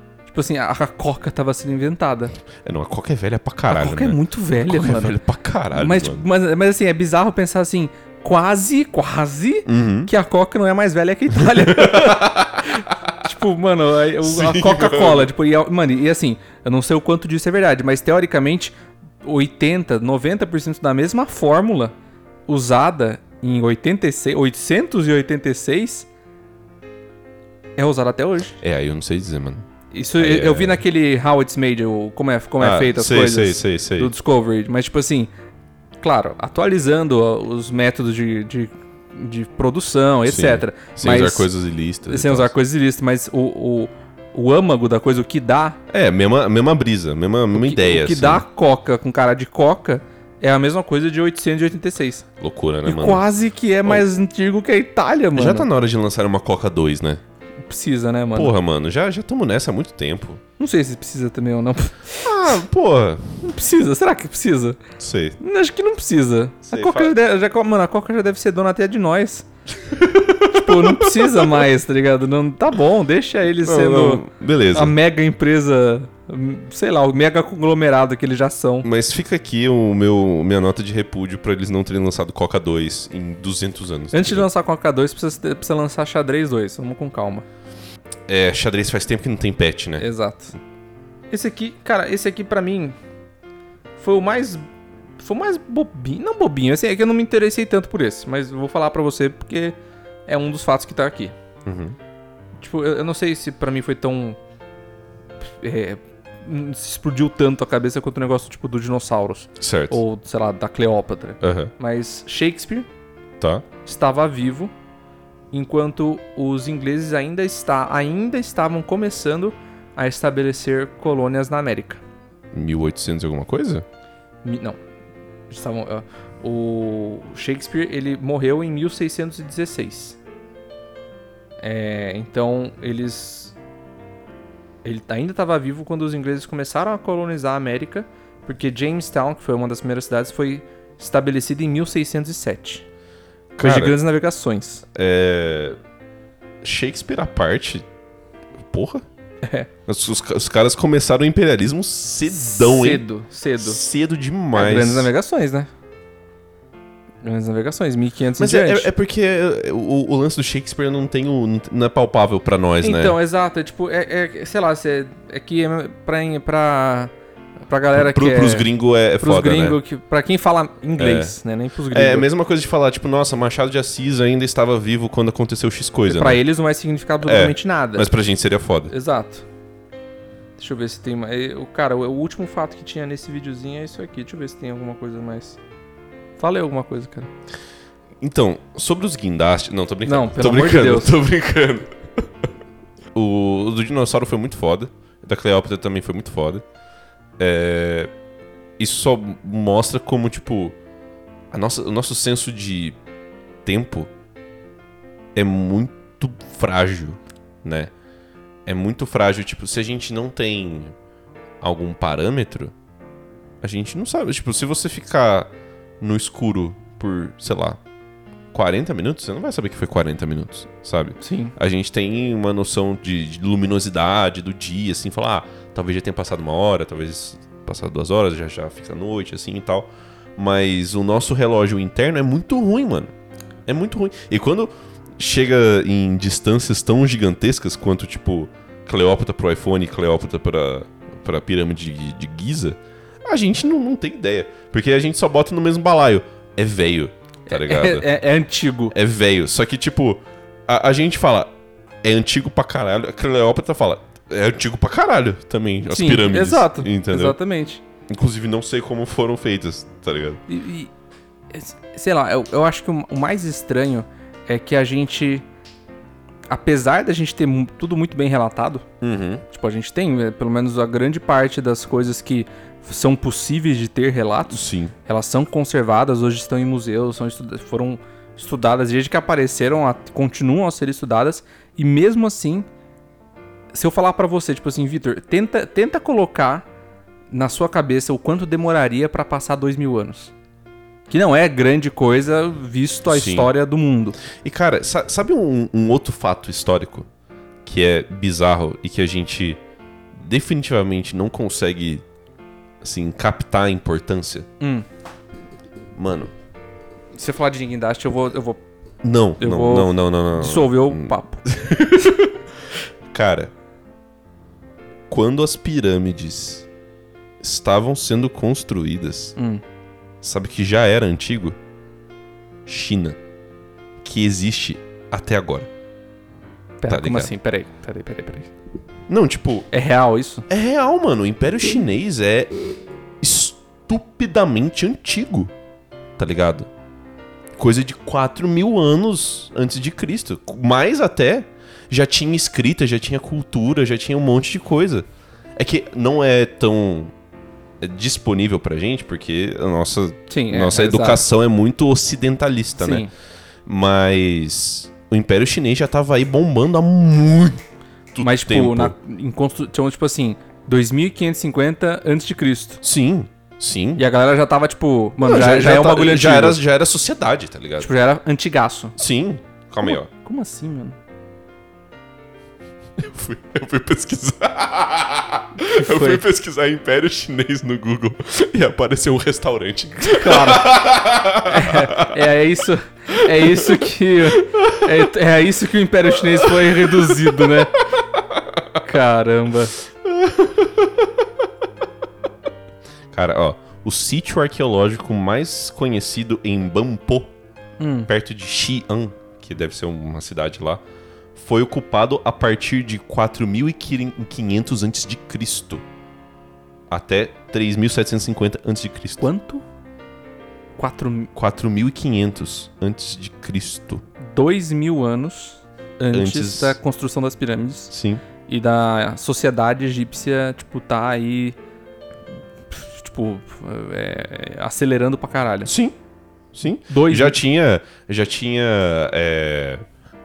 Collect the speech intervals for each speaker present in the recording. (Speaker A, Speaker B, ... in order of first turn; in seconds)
Speaker A: 0.3-2.3, 3.7-5.2, 5.7-21.9, 22.5-26.1, 27.8-28.6, 29.9-35.3, 36.0-41.5, 42.1-45.8, 47.5-52.2, 52.9-55.7, 57.7-58.5, 60.6-62.6, 63.4-64.8, 65.4-69.5, 70.4-78.9, 84.1-87.5, 90.0-90.5, 91.3-93.0, 94.0-94.7, 95.2-101.3, 102.6-104.4, 105.6-112.9, 113.8-114.7, 115.5-122.0, 124.4-124.8, 125.5-130.2, 131.6-133.6, 134.8-142.8, 143.6-144.8, 149.4-149.7, 152.3-153.8, 154.5-155.7, 157.2-158.9, 162.8-167.1, 167.7-168.7, 169.2-172.3, 176.1-178.1, 178.9-179.5, 180.6-185.6, 186.4-187.3, 190.1-191.2, 221.2-221.6, 247.5-248.9, 255.9-257.8, 260.5-260.9, 261.5-265.5, 266.5-268.9, 269.5-282.7, 283.7-286.7, 287.3-290.3, 291.1-294.2, 304.6-304.9, 307.1-308.6, 309.4-311.4, 319.4-319.6, 326.8-328.5, 329.7-330.5, 350.3-351.2, 352.8-353.1, 358.2-362.8, 364.0-366.6, 367.8-369.0, 369.8-371.0, 375.7-376.2, 380.0-380.8, 381.4-387.8, 388.8-389.8, 397.8-398.1, 409.2-409.6, 410.8-411.3, 414.2-417.9, 418.5-421.6, 422.7-425.7, 426.9-427.4
Speaker B: 2.6-6.2, 9.7-10.1, 11.4-13.1, 14.2-15.3, 28.6-29.6, 30.2-30.8, 32.6-34.1, 40.3-42.5, 45.9-48.4, 52.4-53.2, 55.3-57.2, 58.4-60.4, 62.2-63.4, 65.0-65.4, 66.7-67.1, 69.9-71.7, 73.6-75.0, 78.8-84.5, 88.3-90.1, 101.7-102.0, 109.6-110.0, 111.4-111.7, 113.4-113.7, 122.5-123.8, 143.6-144.0, 144.9-145.8, 146.6-147.9, 148.6-149.1, 149.9-153.1, 153.6-155.1, 158.4-163.2, 167.9-169.8, 171.0-171.3, 171.9-176.4, 177.2-178.9, 188.2-192.5, 193.2-196.6, 197.4-198.1, 198.8-200.8, 201.5-203.0, 203.7-204.1, 205.3-207.9, 208.7-210.9, 211.6-212.7, 213.6-217.8, 218.5-233.1, 233.7-248.1, 248.9-251.5, 252.0-257.4, 258.1-260.4, 269.0-269.4, 274.5-274.9, 293.1-293.5, 294.3-297.1, 297.6-299.6, 300.1-302.0, 302.8-304.5, 305.9-306.3, 309.0-313.5, 315.1-316.7, 317.4-319.4, 320.2-321.6, 322.7-323.2, 324.0-325.7, 326.9-327.3, 329.1-329.7, 330.5-332.6, 333.2-335.5, 336.2-336.7, 337.6-347.1, 347.8-353.1, 353.7-357.6, 358.1-358.9, 362.8-364.1, 365.2-367.9, 369.0-370.1, 373.0-382.3, 383.1-385.1, 386.2-388.7, 390.0-391.3, 393.1-397.3, 398.1-400.8, 401.4-405.8, 406.9-409.2, 411.4-414.0, 416.1-416.8, 417.9-418.2, 425.7-426.0, 426.5-429.9